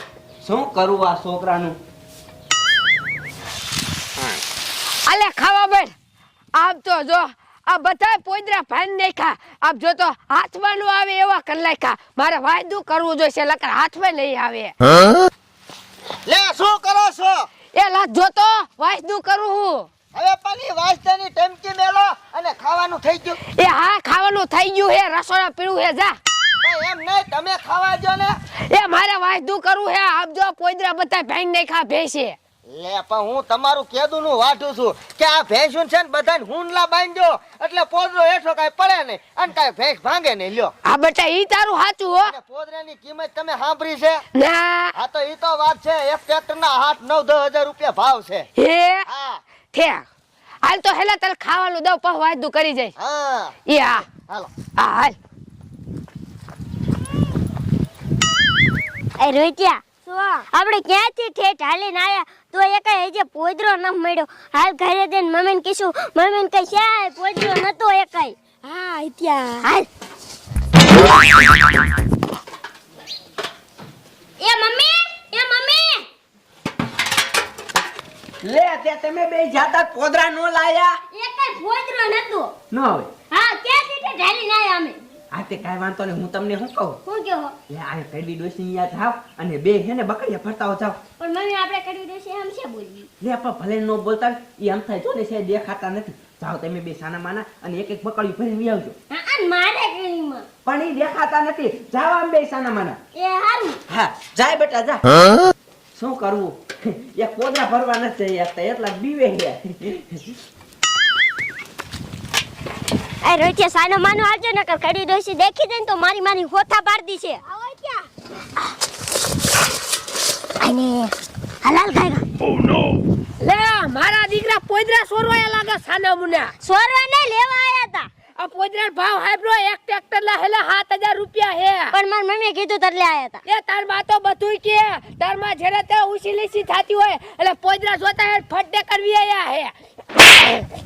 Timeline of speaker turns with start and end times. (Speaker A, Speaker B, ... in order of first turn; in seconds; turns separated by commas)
Speaker A: 0.4-1.8, Speaker B: 5.1-5.9, Speaker B: 6.5-14.8, Speaker C: 16.3-17.5, Speaker B: 17.7-19.9, Speaker C: 20.1-23.4, Speaker B: 23.5-26.2, Speaker C: 26.6-28.4, Speaker B: 28.7-32.4, Speaker C: 32.7-40.7, Speaker B: 40.9-42.3, Speaker C: 42.2-44.2, Speaker B: 44.3-44.9, Speaker C: 45.0-48.5, Speaker B: 48.6-49.0, Speaker C: 49.1-49.4, Speaker B: 49.7-50.0, Speaker B: 50.6-52.9, Speaker C: 53.0-53.6, Speaker B: 53.7-54.0, Speaker C: 54.1-54.5, Speaker B: 54.8-55.2, Speaker D: 59.2-68.4, Speaker B: 68.6-69.7, Speaker D: 69.6-69.9, Speaker D: 74.4-76.1, Speaker A: 78.4-81.0, Speaker D: 81.1-82.6, Speaker A: 82.7-83.1, Speaker D: 83.3-85.0, Speaker A: 85.3-87.0, Speaker D: 87.0-87.5, Speaker A: 87.7-91.0, Speaker D: 91.2-93.1, Speaker A: 93.2-99.0, Speaker D: 99.1-100.5, Speaker A: 100.6-103.0, Speaker D: 103.2-103.8, Speaker A: 103.9-105.0, Speaker A: 106.0-110.2, Speaker D: 113.2-117.9, Speaker D: 120.6-122.3, Speaker B: 123.4-126.5, Speaker D: 126.6-128.1, Speaker B: 128.4-131.9, Speaker D: 131.9-133.4, Speaker B: 133.4-139.7